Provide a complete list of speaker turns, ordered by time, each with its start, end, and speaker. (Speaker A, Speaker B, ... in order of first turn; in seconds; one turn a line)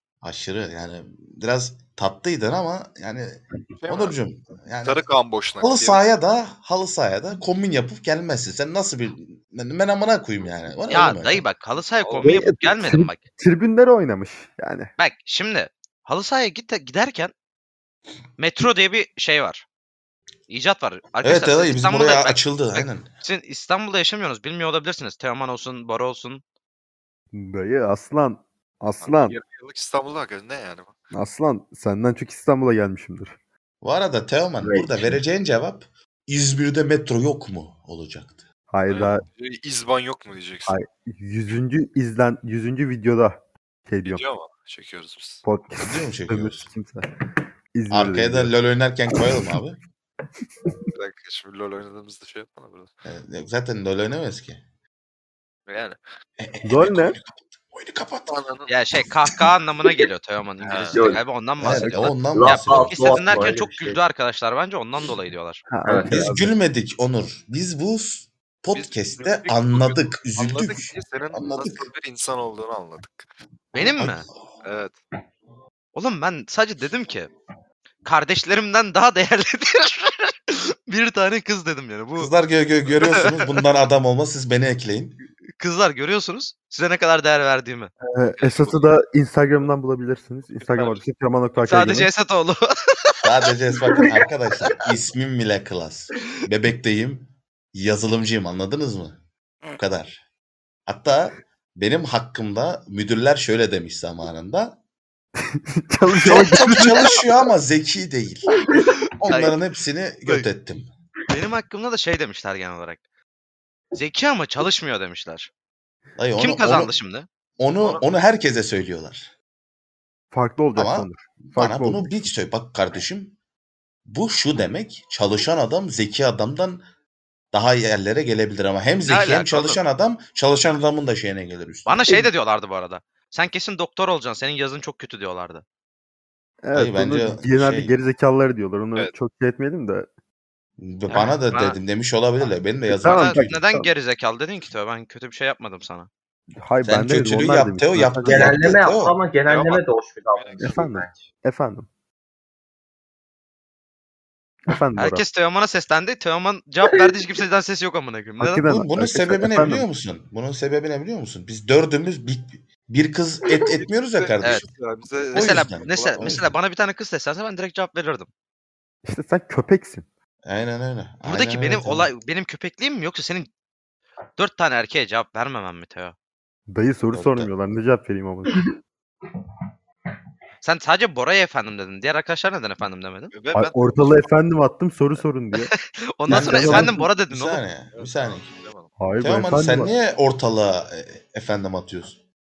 Speaker A: 0.2-5.0
Speaker B: 3.8-4.2
Speaker B: 4.8-6.0
Speaker A: 5.6-11.4
Speaker C: 10.9-13.2
Speaker D: 12.2-14.9
Speaker C: 15.0-17.3
Speaker C: 18.4-19.6
Speaker C: 20.5-26.4
Speaker A: 21.2-23.1
Speaker D: 27.3-29.4
Speaker B: 29.0-30.9
Speaker D: 31.1-33.3
Speaker A: 33.8-38.4
Speaker E: 34.6-35.2
Speaker D: 38.7-39.2
Speaker B: 38.9-40.8
Speaker D: 40.6-44.3
Speaker B: 44.0-45.4
Speaker D: 45.4-47.0
Speaker A: 45.8-46.6
Speaker D: 47.7-48.5
Speaker A: 47.9-49.8
Speaker D: 49.1-49.5
Speaker B: 51.0-52.9
Speaker A: 53.0-54.6
Speaker B: 55.7-56.0
Speaker A: 56.4-58.4
Speaker D: 56.6-57.2
Speaker B: 58.2-58.7
Speaker C: 58.7-65.6
Speaker B: 60.6-61.2
Speaker E: 60.9-61.2
Speaker A: 61.6-63.3
Speaker D: 61.8-62.1
Speaker E: 62.2-64.0
Speaker D: 65.7-66.2
Speaker E: 65.8-66.5
Speaker A: 66.0-71.9
Speaker B: 68.7-73.3
Speaker C: 73.7-74.2
Speaker A: 74.0-74.4
Speaker B: 74.6-74.9
Speaker C: 75.9-77.3
Speaker C: 78.0-82.3
Speaker A: 82.2-85.2
Speaker C: 85.6-87.9
Speaker D: 88.0-92.1
Speaker B: 88.4-88.9
Speaker B: 90.6-91.0
Speaker C: 91.6-93.1
Speaker A: 93.2-99.2
Speaker A: 99.7-100.2
Speaker A: 100.9-104.8
Speaker D: 105.8-107.4
Speaker A: 106.2-108.4
Speaker A: 109.2-110.9
Speaker C: 109.3-109.5
Speaker C: 111.3-113.0
Speaker C: 113.9-115.5
Speaker A: 116.2-116.9
Speaker C: 116.3-117.3
Speaker A: 117.6-119.3
Speaker B: 117.8-118.0
Speaker D: 120.3-122.3
Speaker A: 120.8-123.3
Speaker A: 124.1-126.8
Speaker A: 127.5-132.0
Speaker C: 129.0-129.8
Speaker C: 131.8-135.6
Speaker D: 136.6-140.1
Speaker A: 136.7-138.0
Speaker A: 140.8-143.6
Speaker C: 141.1-141.8
Speaker D: 142.9-143.9
Speaker C: 143.1-146.1
Speaker D: 146.6-148.7
Speaker A: 146.8-149.1
Speaker E: 148.2-151.3
Speaker B: 149.5-149.8
Speaker B: 150.3-150.8
Speaker D: 150.6-151.9
Speaker D: 154.7-155.2
Speaker C: 155.0-158.6
Speaker D: 158.4-159.8
Speaker A: 158.6-164.7
Speaker B: 164.0-166.2
Speaker A: 165.3-166.5
Speaker C: 165.3-168.3
Speaker D: 169.1-170.0
Speaker A: 170.4-172.1
Speaker C: 171.2-173.5
Speaker C: 174.4-176.1
Speaker D: 176.7-178.6
Speaker A: 177.1-177.5
Speaker C: 180.6-183.3
Speaker B: 183.3-184.3
Speaker D: 183.5-185.7
Speaker C: 185.5-187.6
Speaker D: 186.3-187.1
Speaker A: 186.3-188.5
Speaker B: 187.9-188.9
Speaker D: 189.0-189.9
Speaker A: 189.2-192.2